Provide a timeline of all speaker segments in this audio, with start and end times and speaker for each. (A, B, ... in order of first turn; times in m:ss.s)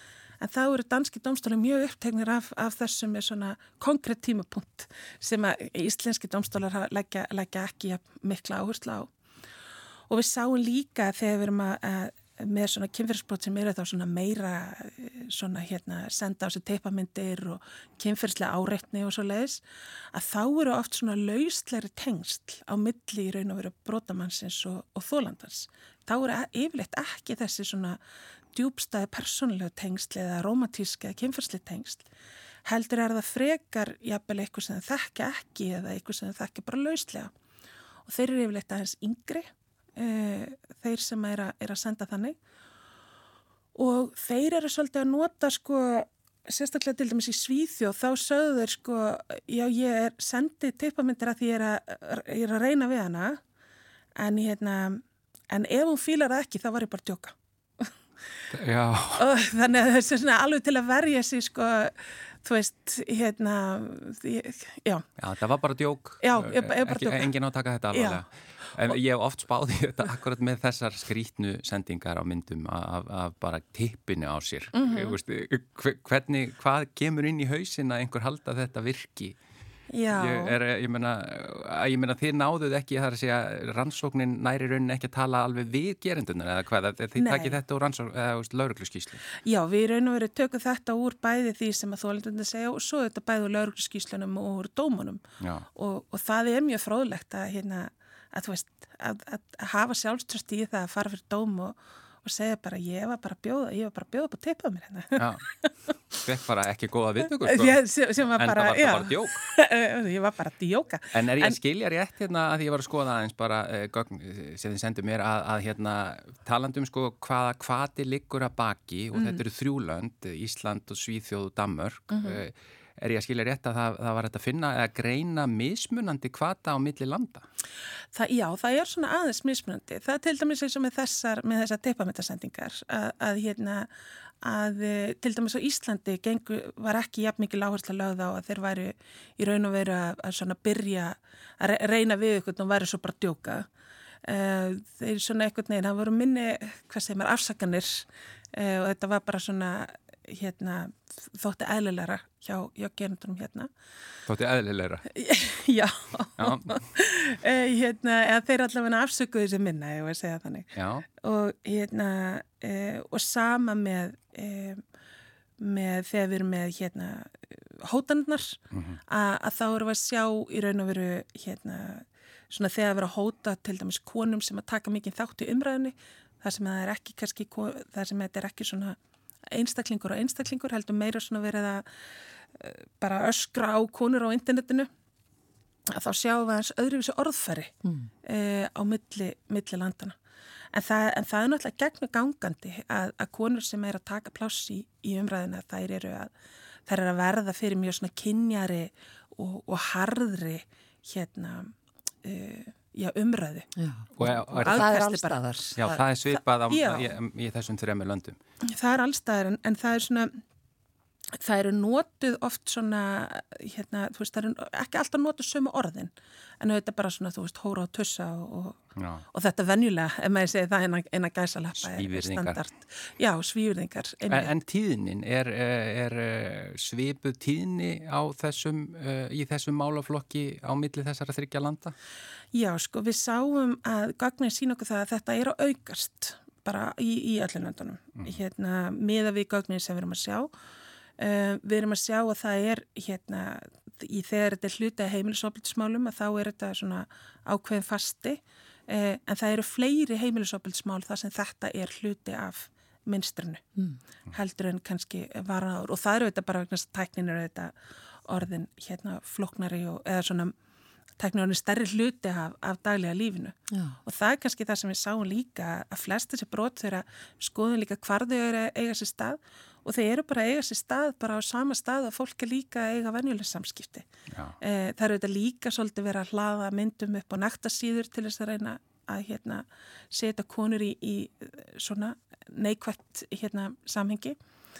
0:00.4-0:09.1 A
0:10.1-0:19.6 A
0:20.1-0:28.0 A
0:28.5-0:32.0 A
0:32.6-0:37.3 A
0:38.0-0:42.4 A
0:43.7-0:53.4 A
0:54.2-0:57.9 A
0:58.5-0:59.3 B
0:59.2-1:05.0 A
1:05.2-1:19.4 B
1:06.2-1:07.3 A
1:07.9-1:08.2 A
1:14.7-1:15.2 A
1:19.9-1:20.6 A
1:20.1-1:29.2 B
1:27.2-1:27.6 A
1:29.4-1:35.2 A
1:35.4-1:35.7 B
1:35.8-1:45.7 A
1:45.2-1:45.5 B
1:46.1-1:47.8 B
1:47.4-1:51.6 A
1:48.4-1:49.5 B
1:51.1-2:07.4 B
1:59.1-1:59.4 A
2:02.1-2:02.4 A
2:08.1-2:13.9 A
2:14.4-2:23.7 A
2:24.2-2:33.7 A
2:34.3-2:35.0 B
2:35.1-2:40.7 A
2:36.4-2:36.8 B
2:40.7-2:41.0 B
2:41.2-2:44.8 A
2:45.6-2:59.0 A
2:48.7-2:49.0 B
2:59.5-3:01.9 A
3:02.5-3:04.9 A
3:05.9-3:10.2 A
3:10.7-3:16.3 A
3:16.9-3:23.7 A
3:23.8-3:26.0 C
3:24.2-3:24.9 B
3:24.2-3:25.4 A
3:25.8-3:28.4 B
3:26.3-3:27.1 A
3:28.7-3:30.4 A
3:31.4-3:38.8 A
3:39.0-3:39.2 B
3:39.3-3:44.5 A
3:41.8-3:42.6 B
3:44.3-3:51.9 B
3:52.5-4:00.5 A
4:01.2-4:13.6 A
4:14.3-4:17.7 A
4:18.3-4:20.5 A
4:21.2-4:34.1 A
4:23.7-4:24.0 C
4:34.3-4:34.6 B
4:34.6-4:44.4 A